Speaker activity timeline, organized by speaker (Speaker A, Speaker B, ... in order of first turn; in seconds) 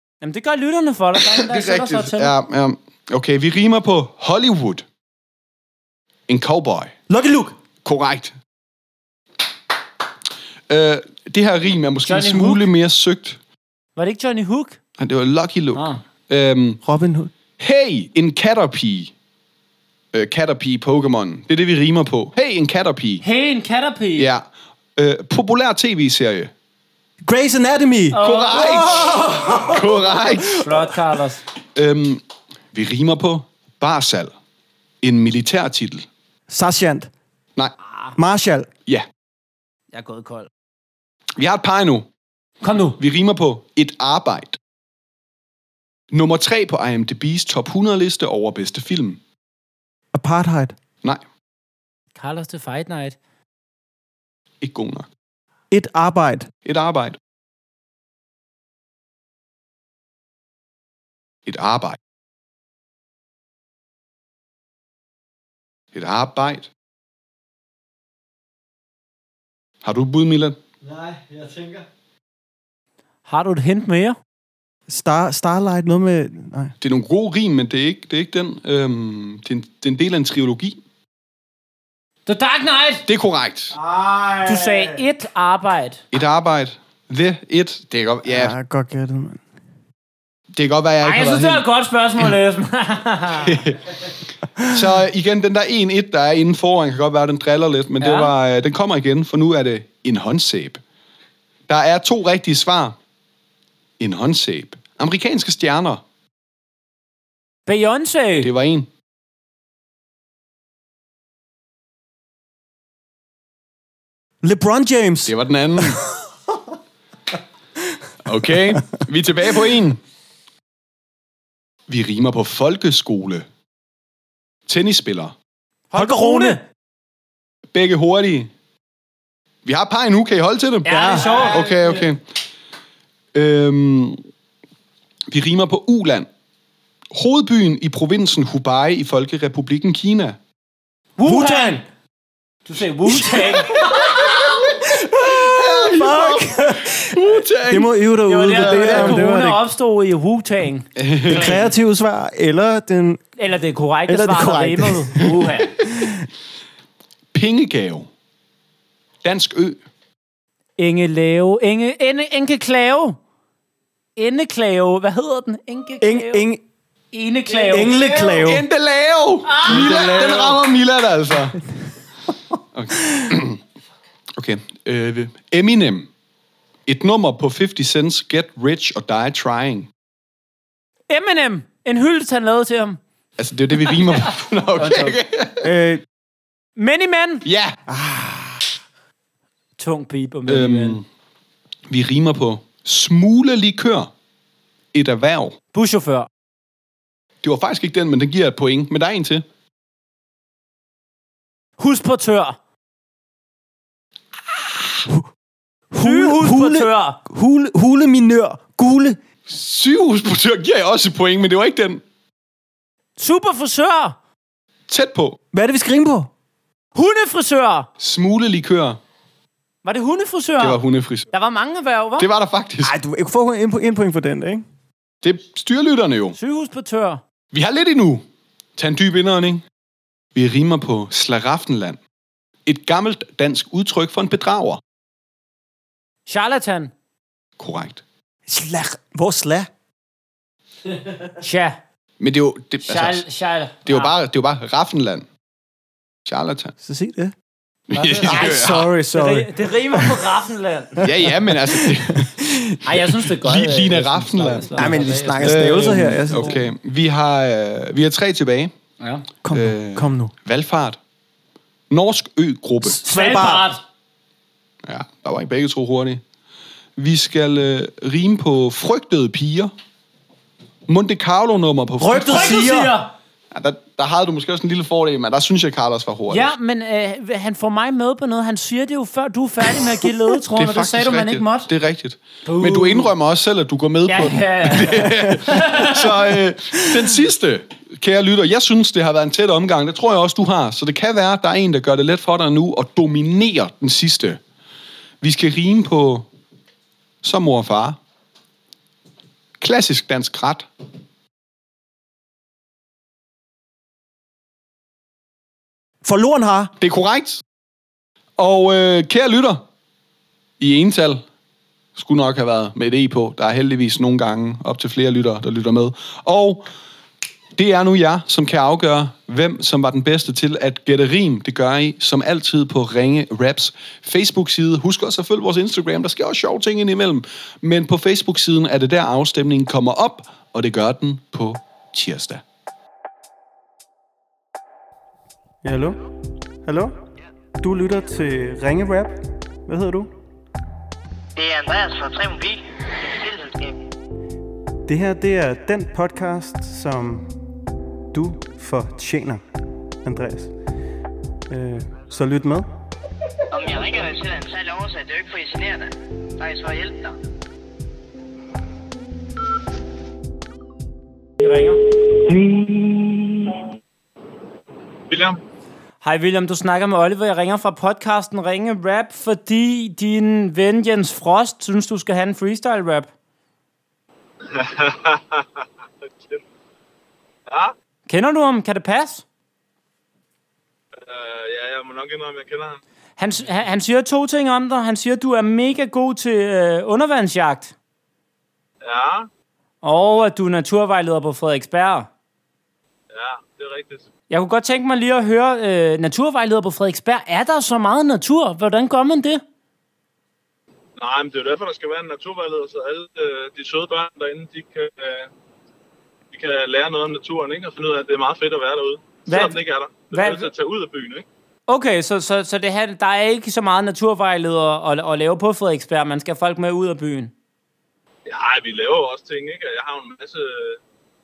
Speaker A: 0.2-2.3, 12.1-12.7, 14.0-14.8, 15.8-16.0, 23.2-24.3, 28.1-29.5, 30.5-31.4, 39.9-40.5, 42.6-43.0, 52.2-53.2, 73.3-74.2, 82.3-83.0, 84.5-86.0, 91.0-93.6, 98.0-98.3, 107.7-108.5, 125.9-126.6, 130.8-132.0, 141.2-141.8, 142.7-143.8, 148.3-151.6, 153.4-155.7, 160.8-163.2, 164.2-166.5, 167.1-168.4, 169.5-170.5, 181.1-183.0, 184.8-185.2, 186.8-187.4, 189.8-191.0, 195.7-196.3, 201.8-202.6, 206.0-207.2, 213.2-214.2, 216.9-217.9, 219.8-220.8, 221.3-222.3, 226.4-227.2, 236.3-236.9, 241.4-241.8, 242.8-244.1, 248.0-248.6, 249.1-251.1, 252.8-255.8, 256.3-256.6, 263.0-263.8, 272.3-273.1, 276.3-281.7, 282.4-283.1, 284.1-286.1, 361.4-361.8, 366.0-373.1, 378.1-379.2, 383.2-387.7, 389.8-392.1, 394.3-399.4, 409.3-410.5, 411.7-417.3
Speaker B: 1.3-4.8, 6.3-6.9, 7.8-8.3, 10.7-13.4, 15.0-16.8, 17.6-19.1, 20.1-23.2, 24.2-24.4, 25.0-26.5, 28.2-30.7, 31.8-32.2, 32.7-34.3, 35.0-36.1, 41.4-42.1, 43.0-44.6, 46.1-49.2, 54.6-55.1, 56.7-57.2, 61.5-62.0, 65.9-66.7, 69.8-70.6, 76.8-80.8, 83.1-83.8, 86.1-88.5, 90.5-91.6, 93.4-93.8, 94.6-100.8, 101.7-103.0, 104.0-106.0, 108.4-108.9, 115.3-116.1, 118.2-120.0, 121.9-123.5, 124.7-125.3, 127.7-128.5, 129.7-132.2, 133.3-134.2, 135.3-136.3, 137.1-140.4, 143.8-144.5, 145.2-149.2, 151.0-151.6, 157.3-158.1, 159.2-159.8, 168.4-171.6, 172.7-173.6, 174.4-176.1, 176.9-179.9, 183.4-185.7, 187.4-187.8, 190.5-191.1, 191.9-194.1, 194.9-195.6, 197.4-199.4, 209.5-212.0, 214.9-215.4, 218.0-219.0, 220.6-221.3, 222.2-222.9, 225.2-226.4, 227.5-228.2, 228.8-229.6, 230.3-232.0, 232.7-234.8, 237.6-238.0, 242.2-243.2, 243.9-245.3, 246.3-246.7, 247.9-248.9, 251.0-252.3, 253.4-258.7, 259.5-261.0, 261.9-263.0, 264.9-266.2, 267.0-269.7, 270.9-272.6, 273.5-276.5, 280.6-294.4, 295.2-296.3, 297.2-298.0, 299.6-300.7, 306.8-307.4, 308.4-309.6, 310.6-311.2, 312.0-316.7, 317.6-332.4
Speaker C: 7.1-7.6, 16.8-17.3, 27.2-30.4, 36.5-37.1, 38.2-38.7, 50.1-50.8, 55.7-56.5, 70.9-71.8, 74.9-76.7, 83.7-85.0, 88.3-89.4, 114.4-116.0, 125.9-126.6, 130.9-131.6, 141.2-141.8, 143.1-149.6, 151.3-153.2, 154.1-155.3, 155.8-156.3, 166.0-166.6, 167.5-168.6, 169.7-170.5, 185.6-186.0, 187.9-188.6, 205.9-209.2, 215.5-216.3, 222.8-224.7, 238.5-239.7, 246.8-247.3, 248.2-250.1, 251.0-252.8, 254.8-256.6, 259.4-260.3, 263.0-263.7, 272.0-272.9, 306.0-306.7, 335.6-336.0, 336.6-337.0, 337.6-340.1, 344.9-347.3, 348.1-349.4, 350.0-350.5, 351.5-352.7
Speaker D: 341.4-343.8, 353.5-357.1
Speaker E: 365.1-365.4, 374.5-376.4, 377.5-377.7, 381.0-382.8, 388.8-389.3, 393.1-394.1, 401.0-405.3, 406.3-411.2, 418.3-420.8